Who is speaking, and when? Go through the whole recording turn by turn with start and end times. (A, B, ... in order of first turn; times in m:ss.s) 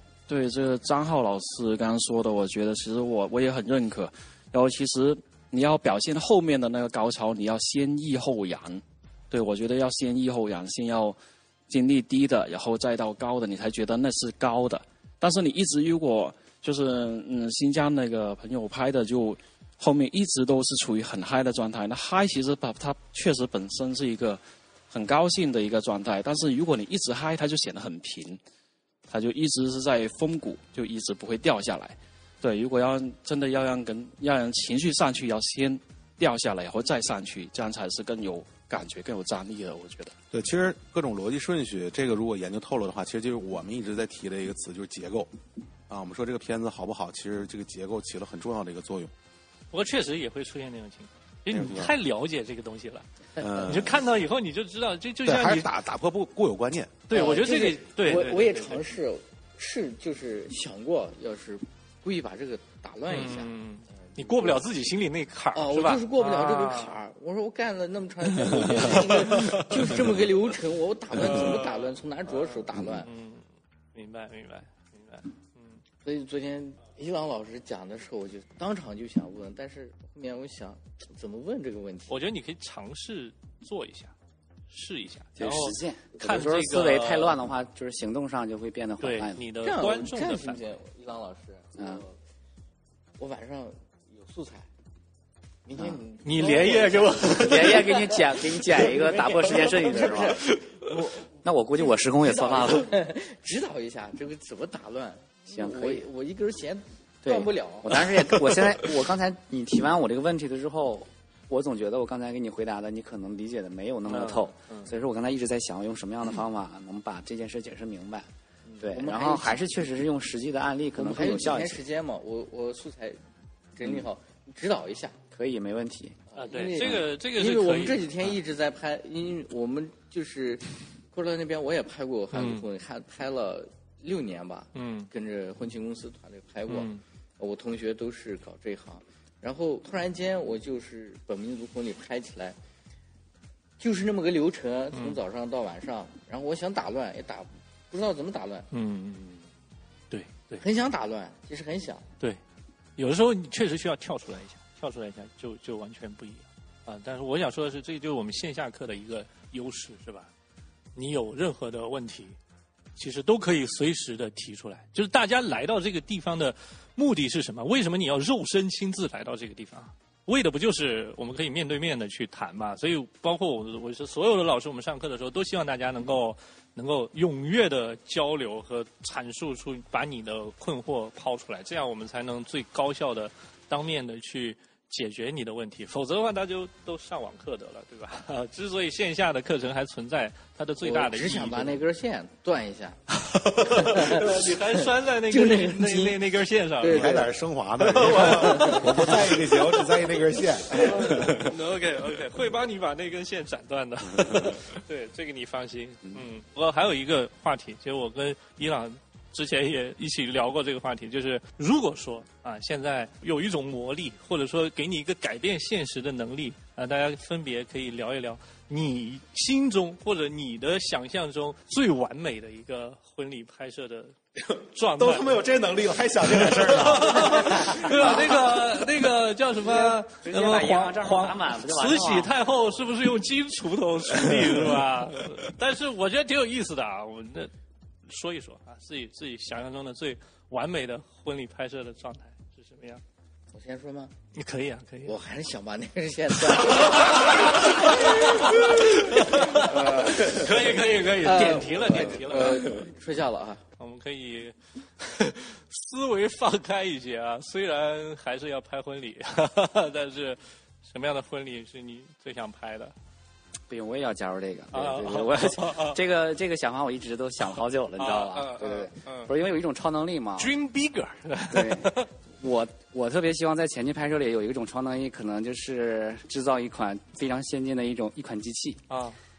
0:00.3-0:11.2 A
0:11.7-0:28.4 A
0:29.1-0:40.1 A
0:40.3-0:45.3 B
0:45.9-0:49.1 B
0:49.7-0:55.7 C
0:51.5-0:51.9 B
0:53.4-0:53.7 D
0:53.4-0:54.0 B
0:55.2-0:57.0 B
0:57.1-0:58.8 C
0:57.1-1:04.6 D
1:03.1-1:07.0 C
1:05.5-1:13.1 D
1:08.7-1:09.9 C
1:11.1-1:15.8 C
1:16.0-1:22.2 D
1:22.1-1:24.1 C
1:24.7-1:27.4 C
1:25.4-1:29.4 E
1:29.0-1:30.6 C
1:29.6-1:32.2 D
1:31.8-1:32.0 E
1:33.2-1:34.7 D
1:35.6-1:38.1 D
1:36.2-1:38.1 C
1:37.3-1:40.4 E
1:38.6-1:41.2 D
1:41.4-1:42.9 E
1:41.8-1:48.3 D
1:45.5-1:46.0 E
1:47.2-1:58.3 E
1:54.1-1:54.9 C
1:58.8-2:01.8 E
1:58.9-1:59.6 D
2:01.0-2:03.2 D
2:03.8-2:05.2 D
2:05.3-2:06.2 E
2:06.3-2:22.6 D
2:06.3-2:08.1 C
2:12.3-2:12.6 C
2:14.7-2:15.1 C
2:16.7-2:17.0 C
2:23.8-2:28.7 D
2:24.9-2:25.2 C
2:28.7-2:29.3 C
2:30.1-2:30.6 C
2:30.6-2:32.0 D
2:33.0-2:40.3 C
2:41.0-2:42.4 C
2:43.0-3:11.8 C
3:10.8-3:13.0 D
3:13.5-3:17.2 C
3:13.6-3:16.2 D
3:16.8-3:17.3 D
3:16.9-3:21.5 B
3:17.8-3:19.6 C
3:18.3-3:19.0 D
3:20.7-3:45.3 C
3:45.0-3:47.7 B
3:46.3-3:57.5 C
3:47.5-3:48.3 E
3:49.6-3:52.3 E
3:58.1-4:03.0 C
4:03.5-4:04.1 D
4:04.3-4:05.1 C
4:05.0-4:08.8 D
4:06.6-4:12.8 C
4:09.5-4:10.6 D
4:11.2-4:13.6 D
4:13.8-4:22.9 C
4:23.7-4:30.5 E
4:24.7-4:26.0 C
4:27.5-4:29.3 C
4:30.4-4:32.1 C
4:31.5-4:38.8 E
4:38.9-4:39.2 C